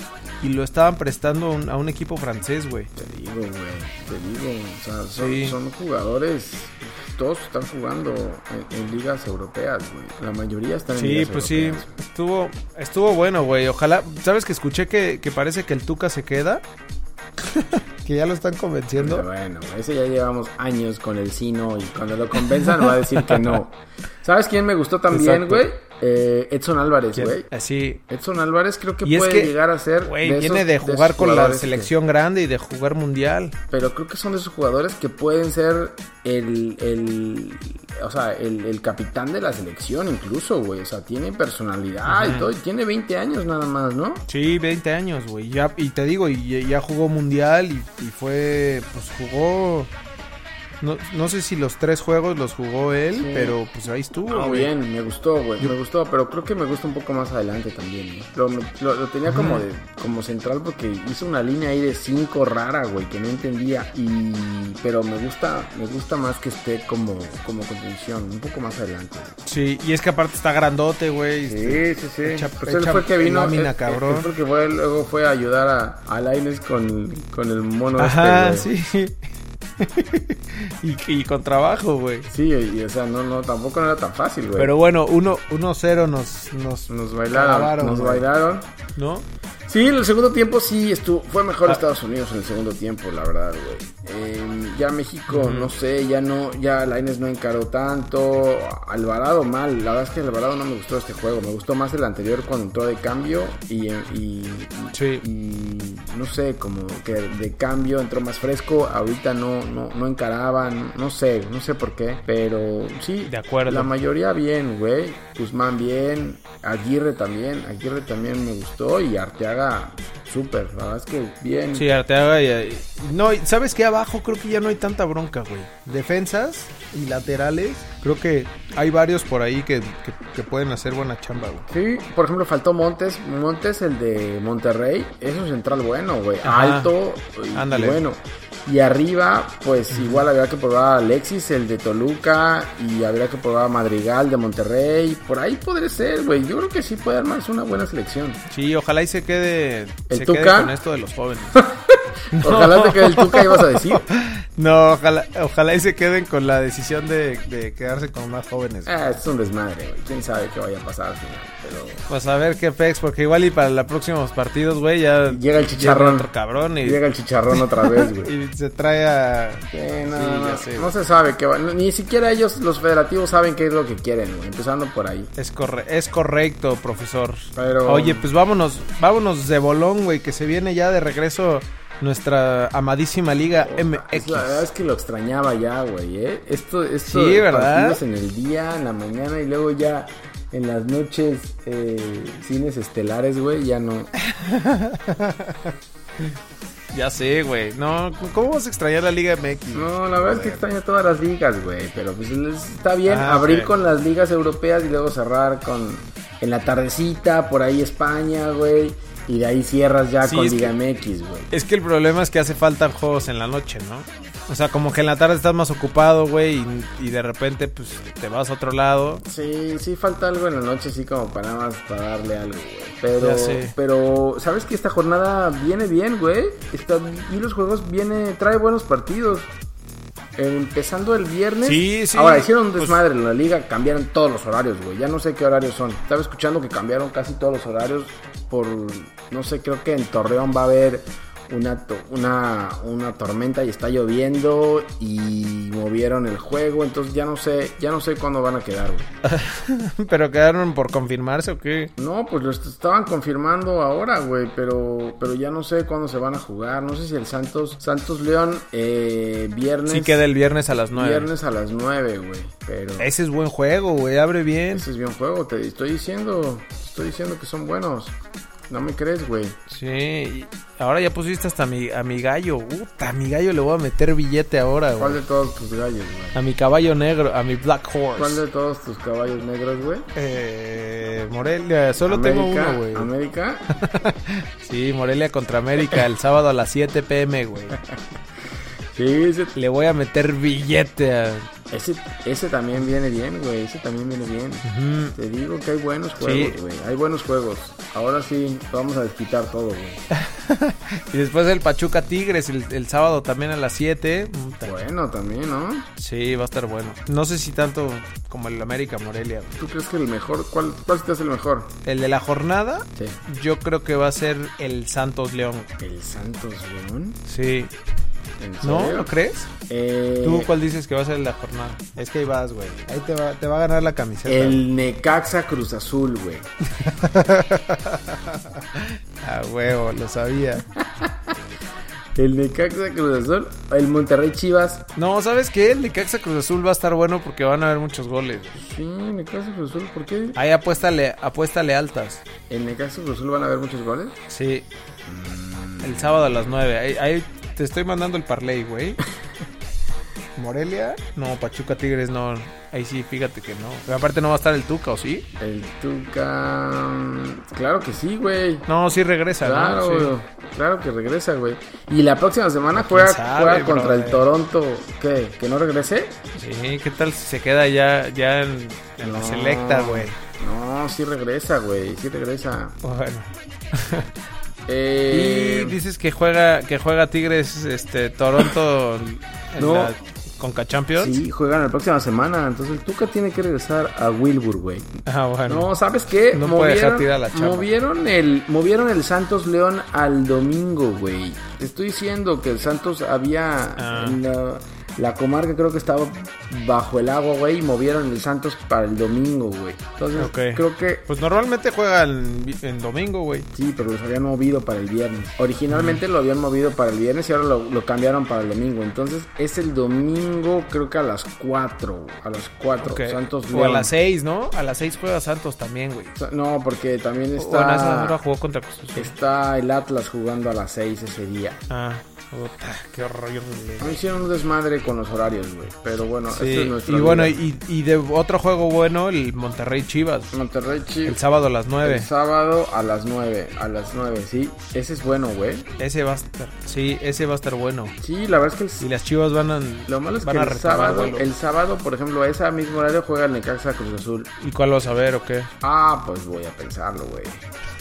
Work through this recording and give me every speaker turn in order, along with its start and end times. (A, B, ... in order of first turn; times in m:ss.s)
0:00.4-0:02.9 A
0:03.0-0:12.0 B
0:05.2-0:05.6 A
0:10.9-0:16.6 A
0:17.4-0:19.2 A
0:19.0-0:27.5 B
0:22.4-0:23.6 A
0:25.1-0:25.6 A
0:27.2-0:28.0 A
0:28.1-0:31.9 B
0:29.0-0:33.6 A
0:33.7-0:44.2 B
0:42.1-0:42.5 A
0:44.3-0:49.9 A
0:50.8-0:54.7 A
0:53.1-0:53.6 B
0:54.3-1:09.4 B
0:59.3-0:59.6 A
1:09.5-1:14.3 A
1:11.5-1:18.7 B
1:18.0-1:19.2 A
1:19.8-1:22.3 A
1:22.3-1:24.7 B
1:24.6-1:28.3 A
1:26.9-1:28.7 B
1:29.0-1:29.2 A
1:29.7-2:01.8 B
1:35.3-1:35.7 A
1:44.9-1:45.2 A
1:53.3-1:53.9 A
2:01.8-2:11.7 A
2:11.7-2:28.4 B
2:16.4-2:16.9 A
2:17.5-2:18.0 A
2:19.9-2:20.3 A
2:28.5-2:31.6 A
2:30.1-2:30.8 B
2:31.5-2:34.0 B
2:32.4-2:38.9 A
2:38.9-2:42.0 B
2:42.1-2:47.0 A
2:45.3-2:46.3 B
2:46.8-2:48.3 B
2:47.5-2:50.9 A
2:49.7-2:55.3 B
2:55.4-3:04.7 A
2:57.6-2:58.3 B
3:03.5-3:14.1 B
3:07.1-3:08.0 A
3:14.2-3:16.3 A
3:16.9-3:20.6 A
3:19.7-3:31.5 B
3:23.1-3:23.7 A
3:30.2-3:30.7 A
3:31.5-3:39.2 A
3:39.2-3:49.5 B
3:43.2-3:43.8 A
3:50.4-4:09.1 B
3:51.6-3:53.0 A
4:09.2-4:11.9 A
4:12.0-4:20.2 B
4:19.9-4:21.3 A
4:20.9-4:23.1 B
4:23.0-4:24.9 A
4:24.7-4:28.2 B
4:28.7-4:29.6 B
4:29.7-4:35.2 A
4:35.0-4:36.4 B
4:36.4-4:38.4 A
4:38.2-4:40.1 B
4:40.2-4:43.1 A
4:42.0-4:43.7 B
4:43.8-4:47.8 A
4:48.9-4:49.6 B
4:49.6-4:51.5 A
4:51.7-5:00.0 B
4:54.6-4:55.2 A
4:56.2-4:56.6 A
5:00.2-5:04.7 A
5:04.6-5:05.9 B
5:06.0-5:09.6 A
5:09.6-5:11.7 B
5:11.8-5:15.7 A
5:15.8-5:17.2 B
5:17.3-5:17.7 A
5:18.4-5:19.1 B
5:18.6-5:19.5 A
5:19.7-5:20.5 B
5:20.2-5:24.6 A
5:24.3-5:26.5 B
5:26.8-5:30.6 A
5:30.8-5:31.3 B
5:32.2-5:34.9 B
5:35.0-5:38.6 A
5:38.6-5:40.4 B
5:40.4-5:42.2 A
5:42.5-5:44.2 B
5:44.3-5:44.7 A
5:45.1-5:46.5 B
5:45.8-5:49.0 A
5:50.4-5:55.3 A
5:55.4-5:58.7 B
5:58.7-6:00.1 A
5:59.4-6:06.2 B
6:02.8-6:04.3 A
6:06.4-6:10.2 A
6:09.0-6:12.8 B
6:12.8-6:14.1 A
6:14.7-6:15.8 B
6:15.1-6:21.2 A
6:19.6-6:19.9 B
6:21.0-6:24.9 B
6:25.1-6:25.7 A
6:25.5-6:41.0 B
6:26.3-6:27.7 A
6:33.8-6:34.2 A
6:40.2-6:43.5 A
6:43.5-6:53.9 B
6:45.7-6:46.0 A
6:52.8-6:56.2 A
6:56.2-6:58.2 B
6:57.4-6:59.1 A
6:59.0-7:01.6 B
7:01.7-7:04.0 A
7:03.8-7:07.4 B
7:06.3-7:10.4 A
7:10.3-7:11.2 B
7:11.1-7:12.1 A
7:11.8-7:15.7 B
7:15.8-7:18.0 A
7:18.0-7:18.8 B
7:18.8-7:21.3 A
7:19.9-7:24.3 B
7:24.4-7:25.5 A
7:25.6-7:27.4 B